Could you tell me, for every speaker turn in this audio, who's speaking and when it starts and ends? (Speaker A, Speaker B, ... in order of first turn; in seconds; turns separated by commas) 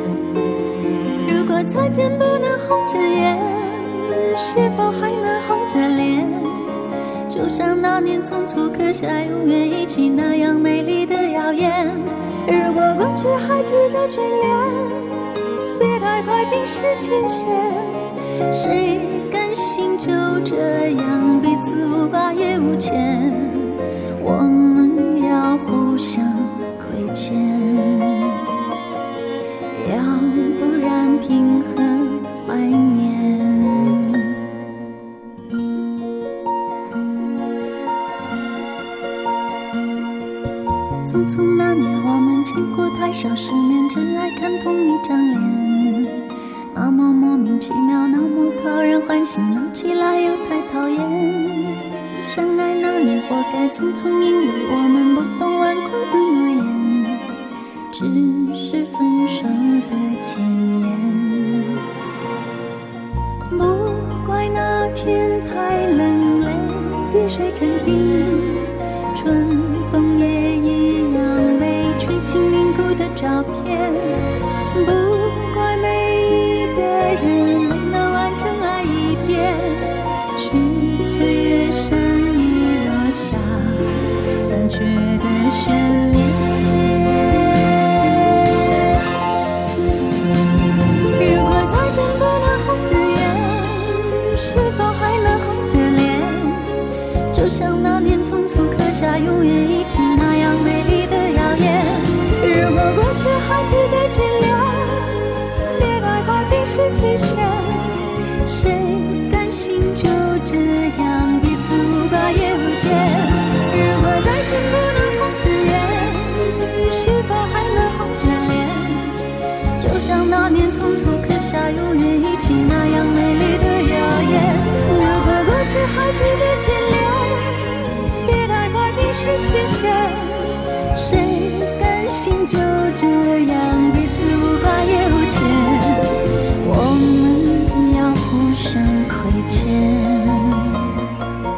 Speaker A: 1.2-6.8, Speaker A: 7.3-28.4, Speaker A: 29.7-34.4, Speaker A: 41.0-57.3, Speaker A: 57.9-61.8, Speaker A: 63.5-83.9, Speaker A: 84.4-88.7, Speaker A: 91.2-119.2, Speaker A: 119.8-136.1, Speaker A: 136.6-140.7